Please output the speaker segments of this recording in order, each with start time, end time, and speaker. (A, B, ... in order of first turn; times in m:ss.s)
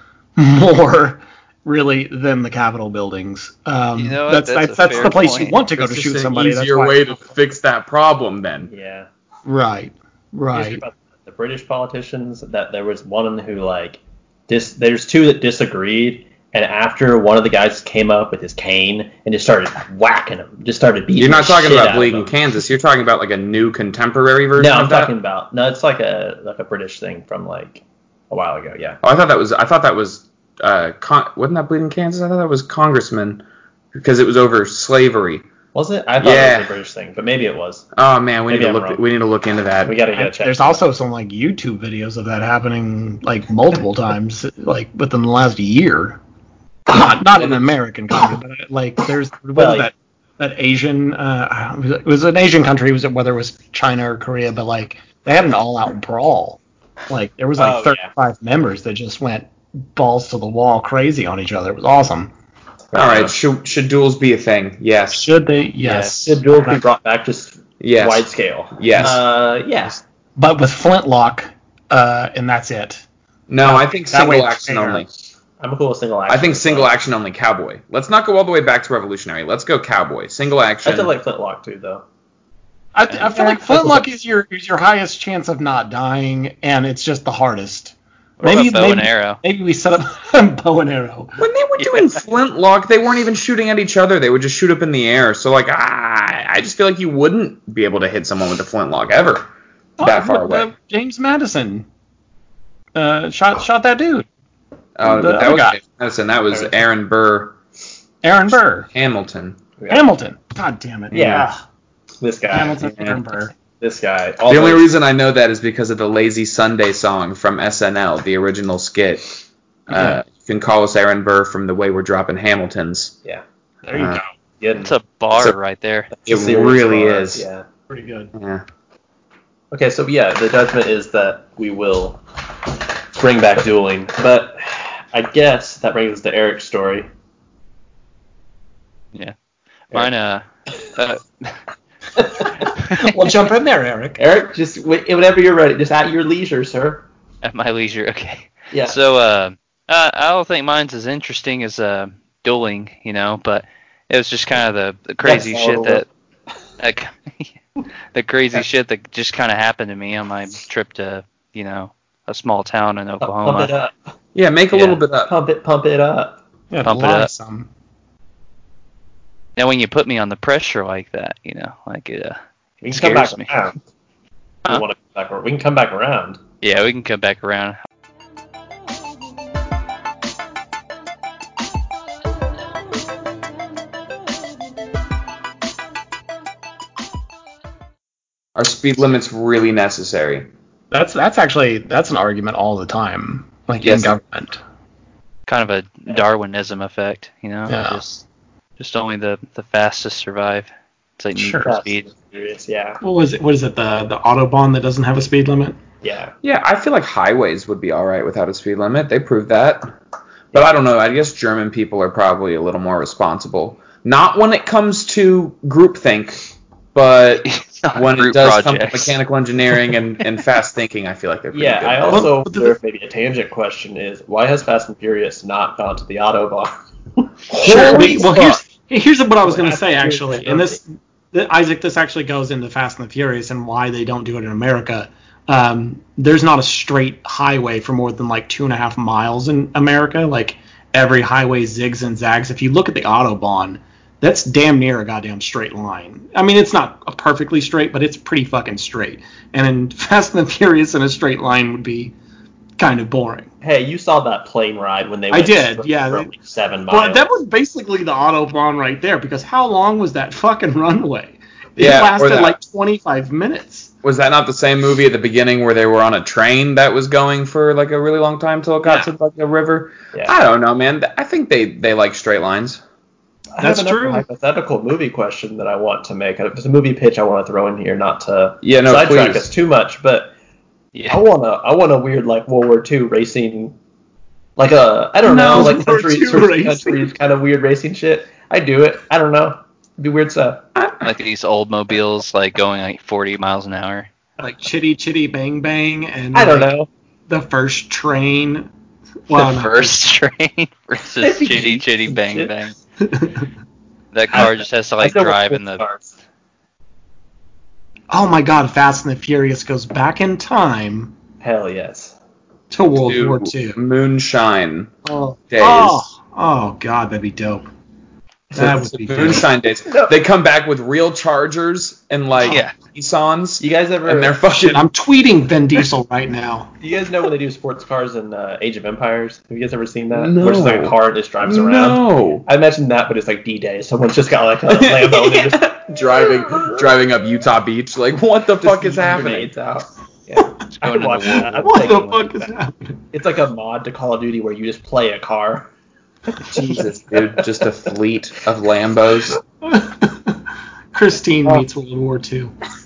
0:00.4-0:07.2 A
0:04.0-0:05.6 B
0:05.8-0:08.7 C
0:08.7-0:09.1 D
0:09.4-0:10.8 A
0:10.5-0:22.3 D
0:21.2-0:25.1 C
0:24.6-0:29.0 D
0:29.0-0:33.4 C
0:33.9-0:35.4 C
0:35.7-0:37.9 D
0:36.2-0:36.7 C
0:38.0-0:40.0 C
0:38.5-0:39.0 D
0:39.8-0:40.8 D
0:40.2-0:46.2 A
0:46.9-1:02.3 A
0:49.6-0:49.9 D
0:57.6-0:58.1 D
1:02.9-1:03.4 D
1:02.9-1:05.3 C
1:05.1-1:06.8 A
1:05.8-1:10.0 D
1:07.8-1:09.2 C
1:10.4-1:13.0 A
1:13.5-1:15.1 C
1:13.6-1:15.1 A
1:15.6-1:16.9 D
1:16.3-1:21.1 C
1:20.8-1:22.0 D
1:23.0-1:31.4 A
1:28.4-1:29.4 B
1:31.4-1:39.5 C
1:40.0-1:41.9 A
1:40.0-1:40.7 C
1:43.0-1:44.3 A
1:45.0-1:47.6 C
1:45.0-1:45.8 A
1:46.5-1:46.8 D
1:48.2-1:48.9 A
1:48.9-1:49.6 C
1:49.8-1:50.1 D
1:49.9-1:51.6 A
1:51.1-1:51.5 D
1:51.1-1:51.4 C
1:52.2-1:52.8 D
1:52.5-1:53.5 A
1:52.8-1:53.2 C
1:53.8-1:54.9 D
1:54.5-1:59.4 C
1:59.9-2:03.2 C
2:03.8-2:04.3 A
2:03.9-2:04.2 C
2:04.6-2:04.9 D
2:04.7-2:06.1 B
2:06.1-2:07.7 D
2:06.3-2:07.4 C
2:07.9-2:08.3 A
2:08.3-2:08.6 C
2:09.7-2:12.2 D
2:13.1-2:17.1 D
2:19.9-2:21.6 B
2:22.2-2:22.5 D
2:22.8-2:23.1 B
2:22.9-2:24.2 A
2:24.2-2:27.1 D
2:27.4-2:36.1 B
2:28.7-2:29.0 D
2:35.2-2:36.0 D
2:36.8-2:37.5 B
2:38.1-2:43.7 B
2:43.2-2:44.0 D
2:44.4-2:45.3 C
2:44.7-2:46.4 D
2:46.7-2:47.7 A
2:46.8-2:47.3 B
2:49.6-2:53.6 B
2:52.8-2:53.8 D
2:54.6-2:56.4 D
2:56.6-2:57.8 B
3:08.6-3:10.5 C
3:10.9-3:14.6 A
3:13.8-3:14.2 C
3:15.5-3:18.2 B
3:17.7-3:18.0 A
3:18.8-3:22.1 B
3:21.4-3:21.7 A
3:21.6-3:23.0 D
3:23.0-3:25.8 A
3:26.0-3:26.4 D
3:26.4-3:29.9 C
3:30.5-3:42.3 C
3:37.5-3:39.2 B
3:41.5-3:48.1 D
3:42.1-3:42.8 A
3:47.5-3:48.6 C
3:47.6-4:12.2 A
3:49.4-3:50.8 D
4:12.8-4:13.5 A
4:13.6-4:17.3 D
4:15.3-4:16.3 A
4:16.9-4:23.9 A
4:21.8-4:22.6 C
4:24.0-4:32.8 C
4:28.8-4:29.1 A
4:33.5-4:40.3 D
4:33.6-4:34.2 A
4:38.6-4:39.5 C
4:40.9-4:41.2 B
4:41.1-4:43.8 D
4:44.6-4:50.7 D
4:45.3-4:47.1 A
4:45.3-4:45.8 C
4:50.8-4:51.0 C
4:51.0-4:54.1 B
4:54.4-4:56.7 A
4:56.3-4:56.9 D
4:57.3-4:58.7 A
4:59.3-5:00.0 A
4:59.3-5:02.7 B
5:01.2-5:02.7 D
5:03.0-5:03.5 A
5:04.1-5:05.8 B
5:04.3-5:06.2 D
5:08.1-5:11.1 A
5:11.4-5:12.2 D
5:12.7-5:13.8 A
5:13.0-5:15.0 C
5:15.0-5:17.6 A
5:15.5-5:16.0 C
5:18.5-5:19.5 A
5:18.6-5:24.9 C
5:19.9-5:20.2 D
5:22.4-5:22.7 B
5:23.6-5:24.6 D
5:24.6-5:26.7 A
5:26.8-5:36.9 D
5:30.1-5:32.4 C
5:34.7-5:39.5 C
5:38.6-5:42.5 D
5:40.8-5:42.1 B
5:41.6-5:43.0 A
5:43.1-5:45.7 D
5:46.5-5:49.4 C
5:46.5-5:47.4 D
5:49.6-5:50.4 A
5:50.9-5:52.5 A